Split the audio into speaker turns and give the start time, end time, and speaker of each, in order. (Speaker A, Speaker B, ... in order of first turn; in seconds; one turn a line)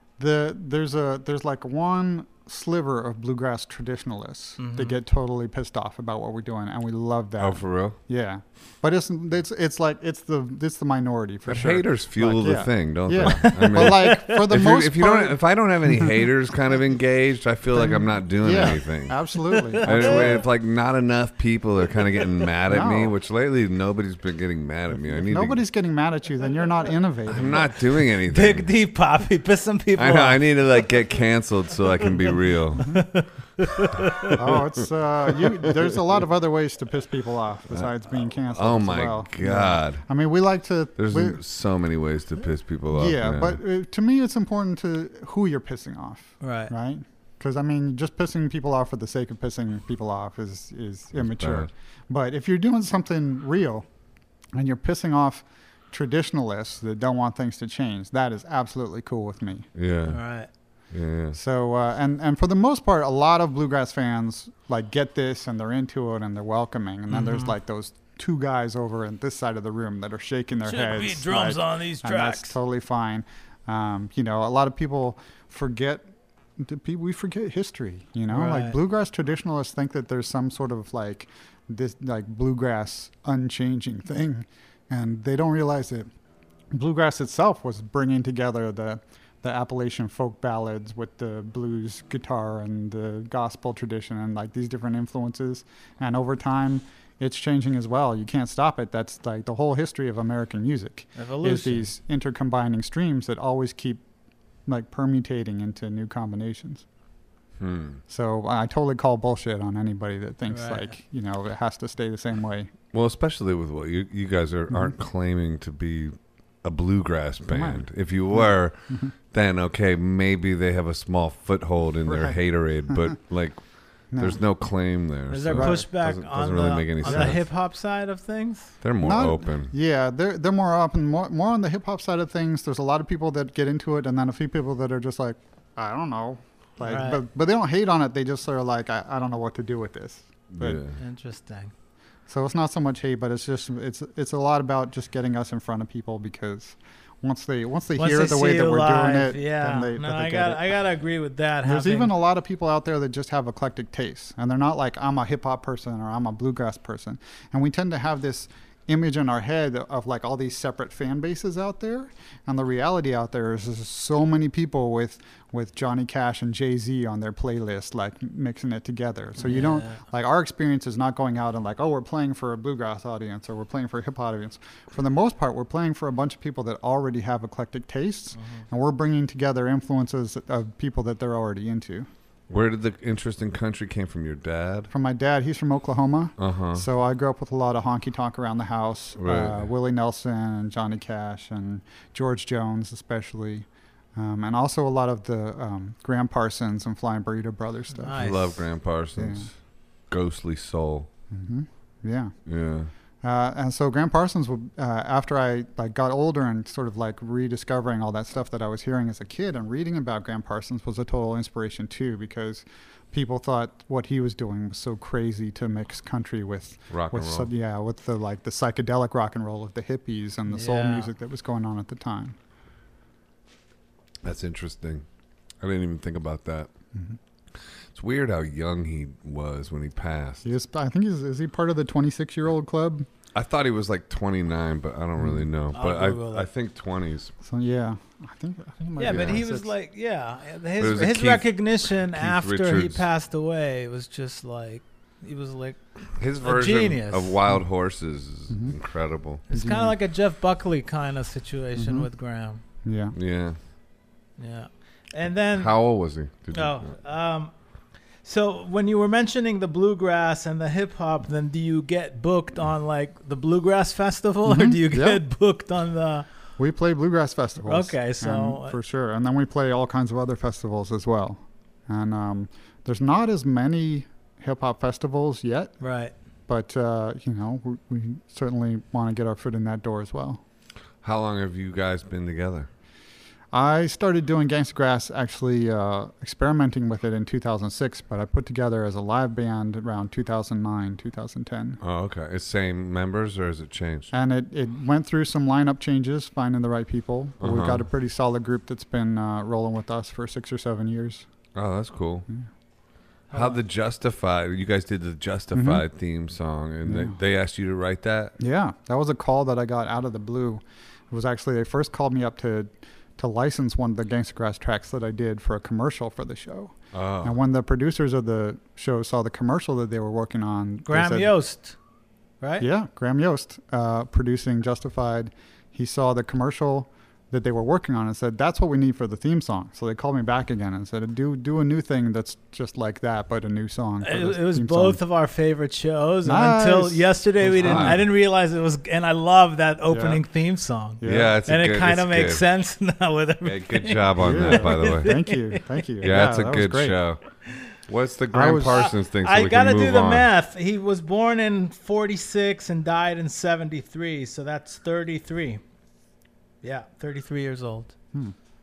Speaker A: 0.2-15.4
Speaker B: 4.6-5.0
Speaker C: 7.4-8.0
Speaker C: 11.5-19.2
Speaker B: 13.2-14.4
Speaker A: 17.7-20.4
Speaker B: 19.5-20.4
Speaker C: 19.8-25.6
Speaker A: 22.7-23.1
Speaker A: 25.3-27.8
Speaker C: 27.3-28.7
Speaker B: 28.3-30.4
Speaker C: 30.0-32.8
Speaker B: 32.8-34.4
Speaker A: 32.8-33.0
Speaker C: 34.0-35.8
Speaker A: 34.4-41.4
Speaker C: 37.7-40.0
Speaker C: 41.0-43.6
Speaker A: 42.9-53.9
Speaker B: 46.4-46.7
Speaker C: 51.2-51.7
Speaker A: 54.5-59.7
Speaker C: 59.8-60.2
Speaker B: 60.1-60.5
Speaker C: 60.9-61.4
Speaker A: 61.3-86.1
Speaker B: 67.1-67.5
Speaker B: 70.6-72.5
Speaker B: 78.3-78.8
Speaker A: 86.7-104.0
Speaker B: 101.2-101.8
Speaker A: 104.7-106.8
Speaker C: 107.6-108.0
Speaker A: 108.1-112.7
Speaker B: 110.5-110.9
Speaker C: 112.9-123.6
Speaker A: 117.5-119.1
Speaker A: 122.1-122.4
Speaker A: 124.1-124.4
Speaker C: 124.2-127.4
Speaker B: 125.3-128.7
Speaker A: 125.5-125.8
Speaker A: 127.0-127.3
Speaker C: 128.8-129.7
Speaker A: 129.0-140.8
Speaker B: 136.8-137.2
Speaker C: 140.5-141.0
Speaker B: 141.0-141.7
Speaker A: 142.3-150.7
Speaker B: 148.0-152.1
Speaker A: 151.6-182.1
Speaker B: 169.4-170.0
Speaker B: 178.3-178.6
Speaker C: 182.5-184.9
Speaker A: 184.9-198.3
Speaker C: 186.4-186.8
Speaker C: 189.2-189.6
Speaker B: 197.9-198.6
Speaker C: 198.2-199.5
Speaker A: 199.2-199.5
Speaker C: 200.1-201.1
Speaker A: 201.3-202.3
Speaker C: 202.5-202.9
Speaker A: 203.2-222.4
Speaker C: 216.9-217.5
Speaker B: 220.5-221.1
Speaker C: 224.2-225.0
Speaker C: 225.6-226.7
Speaker C: 227.9-230.5
Speaker A: 230.4-233.1
Speaker C: 233.3-237.3
Speaker A: 235.2-235.4
Speaker B: 235.7-236.5
Speaker A: 237.4-239.7
Speaker B: 239.0-245.8
Speaker C: 239.0-239.4
Speaker C: 240.8-243.0
Speaker C: 246.2-249.4
Speaker B: 246.4-247.3
Speaker A: 248.5-248.8
Speaker B: 249.5-252.6
Speaker A: 249.5-249.9
Speaker A: 251.8-252.1
Speaker A: 252.8-253.1
Speaker C: 253.2-253.6
Speaker B: 254.4-255.8
Speaker C: 255.5-256.9
Speaker B: 256.5-257.5
Speaker B: 258.2-266.2
Speaker A: 264.4-265.2
Speaker A: 266.6-275.7
Speaker B: 267.6-268.8
Speaker B: 275.8-276.1
Speaker A: 276.5-280.4
Speaker C: 281.0-282.7
Speaker A: 283.5-291.8
Speaker C: 291.8-294.1
Speaker A: 294.1-301.2
Speaker C: 297.4-297.8
Speaker C: 301.5-302.3
Speaker B: 303.3-303.6
Speaker C: 303.3-308.3
Speaker A: 305.5-305.8
Speaker A: 306.9-307.2
Speaker A: 308.4-321.3
Speaker C: 316.9-317.4
Speaker B: 320.9-321.8
Speaker B: 322.4-322.6
Speaker A: 322.6-335.0
Speaker B: 334.0-345.9
Speaker A: 336.2-338.0
Speaker C: 337.6-338.0
Speaker A: 339.9-340.2
Speaker A: 341.0-341.4
Speaker C: 341.0-342.4
Speaker C: 343.4-345.1
Speaker A: 344.2-347.0
Speaker C: 346.0-347.2
Speaker C: 347.9-350.3
Speaker A: 348.3-348.9
Speaker B: 348.7-355.6
Speaker B: 356.6-357.9